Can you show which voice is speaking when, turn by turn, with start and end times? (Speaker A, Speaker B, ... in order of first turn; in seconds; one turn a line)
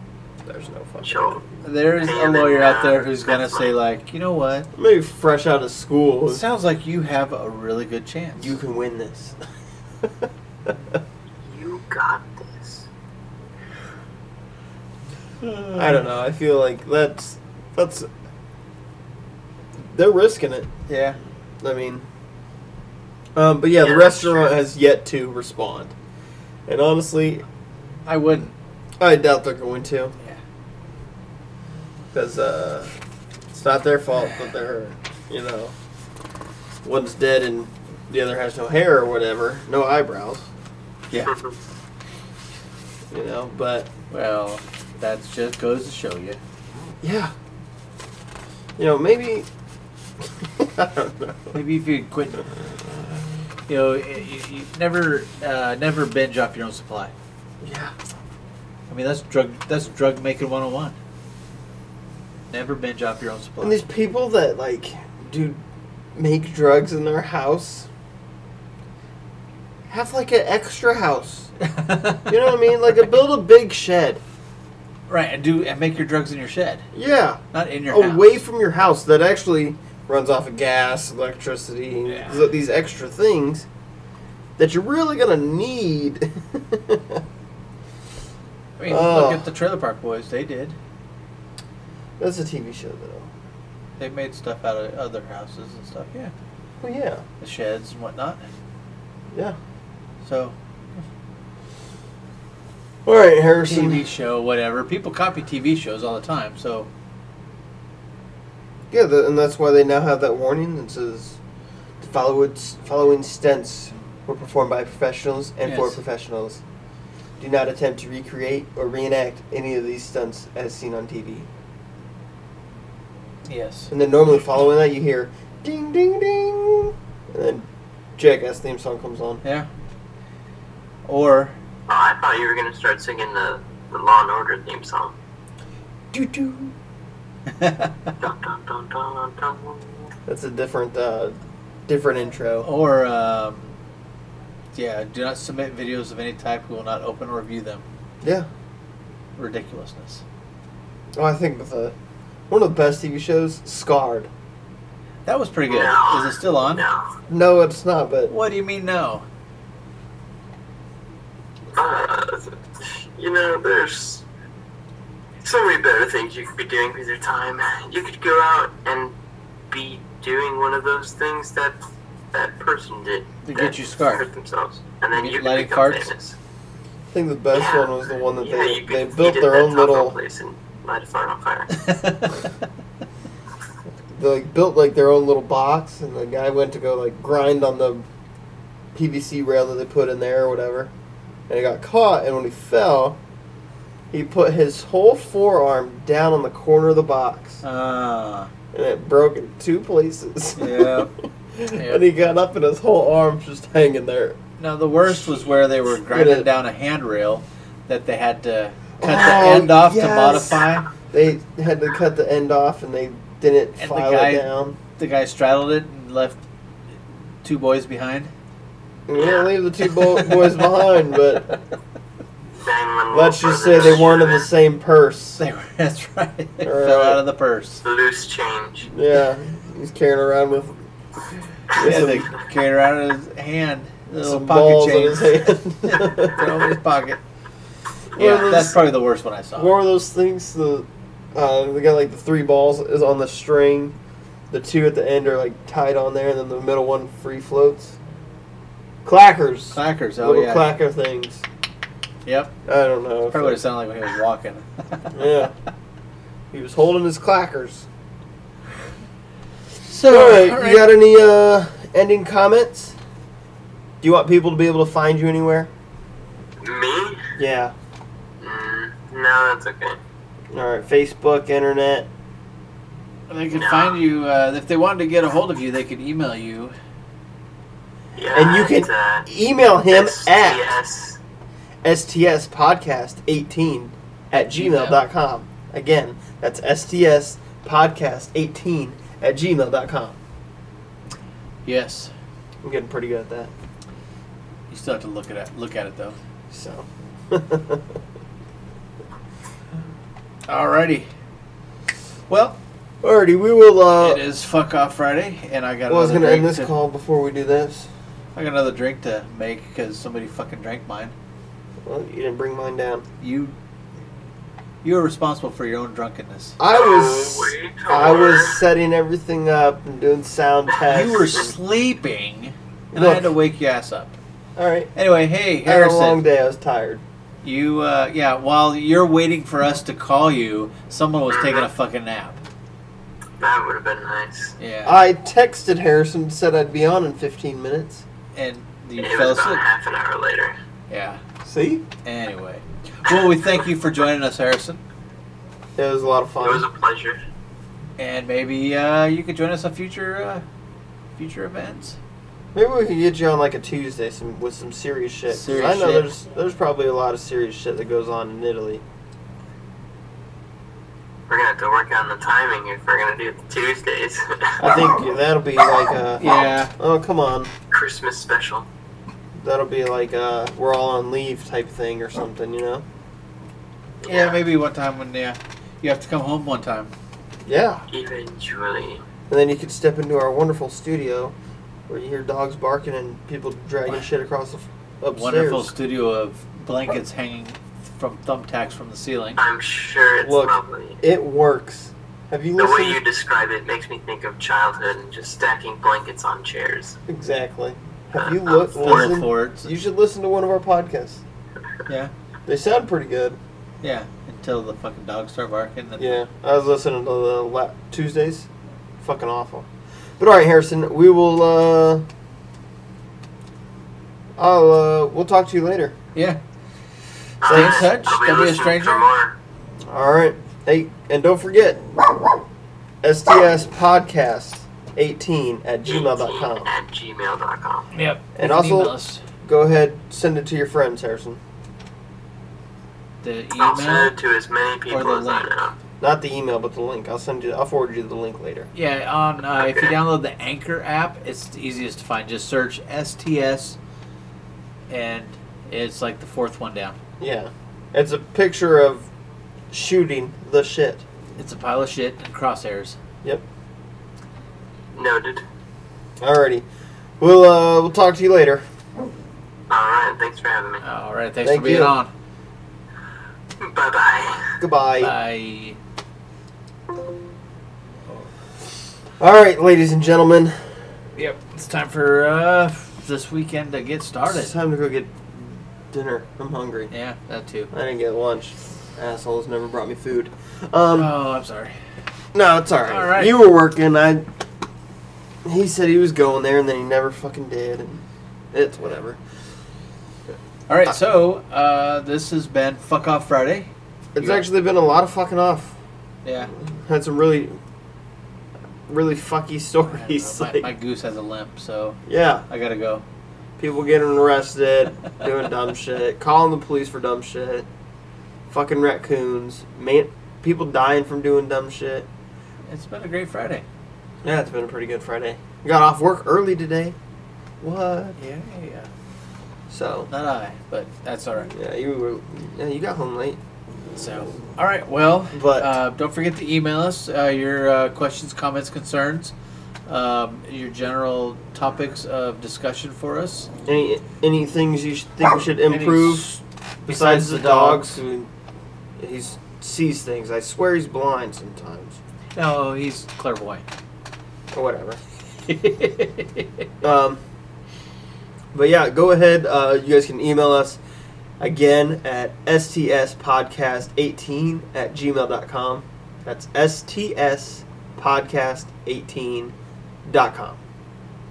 Speaker A: 0.5-1.4
Speaker B: 1.0-1.4
Speaker C: 1.6-4.7
Speaker B: 2.0-3.7
Speaker A: 4.7-6.4
Speaker C: 6.3-8.6
Speaker A: 8.4-9.3
Speaker A: 10.0-11.0
Speaker B: 11.4-12.9
Speaker C: 15.4-16.0
Speaker A: 15.7-18.1
Speaker A: 19.9-20.7
Speaker C: 20.9-21.2
Speaker A: 21.6-22.0
Speaker A: 23.4-25.9
Speaker B: 23.8-24.6
Speaker A: 26.7-27.4
Speaker C: 28.1-28.5
Speaker A: 29.0-30.1
Speaker A: 32.1-32.9
Speaker A: 33.5-35.7
Speaker A: 36.8-40.5
Speaker B: 41.2-41.5
Speaker A: 43.1-43.9
Speaker C: 44.1-46.4
Speaker A: 47.0-47.3
Speaker A: 48.8-49.5
Speaker A: 50.4-51.6
Speaker C: 51.5-52.4
Speaker C: 53.7-57.1
Speaker A: 57.6-57.9
Speaker C: 58.9-61.0
Speaker C: 62.5-63.8
Speaker A: 63.6-65.6
Speaker A: 66.2-67.9
Speaker A: 69.9-71.5
Speaker C: 71.6-72.6
Speaker A: 72.2-74.2
Speaker C: 75.1-76.8
Speaker A: 76.9-83.7
Speaker C: 77.5-78.4
Speaker C: 82.1-82.5
Speaker A: 84.6-87.2
Speaker C: 88.8-90.8
Speaker A: 88.9-89.5
Speaker A: 92.2-93.3
Speaker C: 94.0-96.3
Speaker A: 96.8-97.2
Speaker C: 97.4-98.4
Speaker C: 100.2-101.0
Speaker A: 103.0-104.0
Speaker C: 103.7-106.9
Speaker A: 108.9-111.4
Speaker A: 112.0-116.6
Speaker C: 115.6-116.0
Speaker A: 117.4-121.5
Speaker C: 123.4-123.9
Speaker A: 123.9-127.7
Speaker A: 128.2-129.4
Speaker C: 129.4-129.7
Speaker C: 131.0-131.5
Speaker B: 131.9-135.1
Speaker A: 136.1-136.7
Speaker C: 137.5-138.1
Speaker B: 138.2-140.1
Speaker A: 140.3-142.7
Speaker C: 142.6-143.7
Speaker C: 144.7-147.8
Speaker A: 148.2-148.5
Speaker C: 149.4-150.2
Speaker A: 151.2-151.9
Speaker A: 152.5-154.3
Speaker C: 155.2-156.8
Speaker B: 155.7-157.0
Speaker A: 157.3-158.3
Speaker C: 158.3-159.2
Speaker B: 161.7-164.2
Speaker B: 165.4-169.1
Speaker B: 169.7-171.7
Speaker B: 172.3-176.3
Speaker C: 173.4-174.2
Speaker C: 175.1-176.1
Speaker A: 177.1-180.2
Speaker B: 177.5-181.8
Speaker C: 181.7-182.5
Speaker A: 184.1-188.0
Speaker A: 188.9-190.9
Speaker A: 191.5-193.2
Speaker A: 194.1-197.6
Speaker C: 197.6-198.5
Speaker A: 198.7-204.4
Speaker C: 200.6-201.1
Speaker C: 201.8-202.1
Speaker C: 204.6-210.9
Speaker A: 206.1-206.5
Speaker A: 209.0-214.8
Speaker C: 213.8-216.4
Speaker C: 217.4-218.3
Speaker A: 219.1-221.6
Speaker B: 219.1-219.5
Speaker C: 219.9-220.8
Speaker B: 222.6-224.5
Speaker A: 223.1-225.4
Speaker C: 225.4-227.8
Speaker A: 226.6-227.2
Speaker B: 227.8-228.9
Speaker A: 228.9-230.8
Speaker A: 231.7-232.3
Speaker C: 231.8-237.2
Speaker A: 234.2-236.5
Speaker A: 238.1-238.8
Speaker C: 238.2-239.7
Speaker A: 239.6-243.9
Speaker A: 244.5-248.0
Speaker A: 249.0-251.4
Speaker C: 249.7-250.7
Speaker C: 252.2-252.5
Speaker A: 252.7-253.6
Speaker C: 253.3-255.2
Speaker A: 255.1-255.5
Speaker A: 256.5-257.9
Speaker C: 259.9-260.9
Speaker A: 260.1-262.9
Speaker A: 264.0-265.7
Speaker B: 266.6-267.3
Speaker A: 267.4-267.7
Speaker B: 268.4-270.0
Speaker A: 270.5-272.1
Speaker C: 273.3-276.7
Speaker B: 273.5-274.0
Speaker B: 278.1-279.2
Speaker A: 278.3-280.6
Speaker B: 279.9-281.2
Speaker A: 281.8-290.2
Speaker C: 284.3-285.0
Speaker C: 291.6-292.1
Speaker A: 292.6-293.5
Speaker C: 294.7-296.2
Speaker A: 296.5-297.9
Speaker C: 300.5-301.1
Speaker C: 302.3-302.6
Speaker A: 303.0-304.2
Speaker C: 304.0-306.7
Speaker A: 305.9-307.9
Speaker C: 308.3-311.1
Speaker A: 311.8-313.0
Speaker C: 313.2-313.5
Speaker C: 314.8-316.6
Speaker A: 316.6-321.5
Speaker B: 316.7-318.6
Speaker C: 320.8-324.1
Speaker A: 322.9-323.3
Speaker A: 324.6-324.9
Speaker C: 324.9-326.2
Speaker A: 325.6-327.0
Speaker C: 327.4-332.4
Speaker B: 331.3-331.7
Speaker B: 333.4-334.6
Speaker C: 334.6-335.0
Speaker A: 334.8-338.0
Speaker C: 338.3-339.6
Speaker B: 339.0-340.6
Speaker C: 340.9-341.2
Speaker A: 341.4-341.8
Speaker C: 342.0-344.8
Speaker A: 345.8-346.6
Speaker B: 346.4-347.2
Speaker C: 348.0-350.4
Speaker C: 351.1-352.0
Speaker A: 352.5-358.8
Speaker C: 355.3-356.1
Speaker B: 361.3-364.8
Speaker A: 364.6-367.5
Speaker C: 366.2-366.7
Speaker B: 367.7-368.6
Speaker A: 369.4-372.8
Speaker B: 374.0-374.4
Speaker C: 374.1-376.9
Speaker A: 377.4-377.8
Speaker B: 377.9-379.0
Speaker A: 379.3-381.3
Speaker A: 381.9-385.7
Speaker C: 385.1-389.4
Speaker B: 389.4-391.0
Speaker A: 390.2-393.0
Speaker B: 392.6-397.0
Speaker A: 397.1-401.2
Speaker B: 398.2-399.1
Speaker C: 398.8-399.7
Speaker C: 401.9-402.1
Speaker A: 402.4-403.4
Speaker C: 403.8-406.2
Speaker A: 406.0-408.5
Speaker A: 409.0-409.7
Speaker A: 410.2-412.0
Speaker A: 414.4-416.0
Speaker C: 416.1-416.4
Speaker B: 417.4-419.4
Speaker C: 417.4-419.1
Speaker A: 417.5-417.9
Speaker A: 419.9-421.8
Speaker A: 423.0-426.7
Speaker B: 425.9-427.9
Speaker C: 427.9-429.2
Speaker A: 428.4-431.4
Speaker C: 433.2-434.1
Speaker B: 433.6-435.8
Speaker C: 434.9-435.5
Speaker A: 436.0-438.7
Speaker C: 438.7-443.8
Speaker B: 439.6-440.0
Speaker C: 444.9-447.0
Speaker A: 447.2-449.1
Speaker A: 449.7-451.0
Speaker C: 451.4-453.0
Speaker B: 454.9-455.4
Speaker A: 456.2-456.6
Speaker A: 457.2-458.6
Speaker B: 459.7-460.8
Speaker C: 460.8-462.1
Speaker A: 461.4-461.9
Speaker B: 463.6-464.6
Speaker A: 464.6-465.1
Speaker C: 465.0-465.8
Speaker A: 469.2-470.5
Speaker C: 471.1-474.5
Speaker A: 474.3-476.9
Speaker C: 476.9-477.7
Speaker A: 477.7-481.1
Speaker C: 480.9-481.7
Speaker A: 482.3-484.2
Speaker C: 482.9-483.3
Speaker A: 485.4-489.2
Speaker C: 490.7-494.4
Speaker A: 494.1-495.7
Speaker C: 496.2-496.5
Speaker A: 496.5-497.6
Speaker A: 498.9-500.7
Speaker C: 499.9-503.0
Speaker A: 502.1-502.4
Speaker A: 503.6-507.7
Speaker A: 508.5-512.1
Speaker C: 512.7-513.6
Speaker A: 514.2-517.0
Speaker A: 517.6-518.2
Speaker C: 518.2-518.9
Speaker A: 519.7-520.1
Speaker C: 520.1-521.5
Speaker A: 521.5-523.4
Speaker C: 523.9-529.3
Speaker A: 525.3-525.7
Speaker C: 529.9-533.5
Speaker A: 533.7-538.3
Speaker C: 535.7-538.0
Speaker A: 539.0-542.0
Speaker C: 542.3-543.6
Speaker A: 544.5-545.0
Speaker C: 545.4-546.6
Speaker A: 546.8-547.2
Speaker A: 548.5-550.8
Speaker A: 551.4-559.5
Speaker A: 560.0-560.6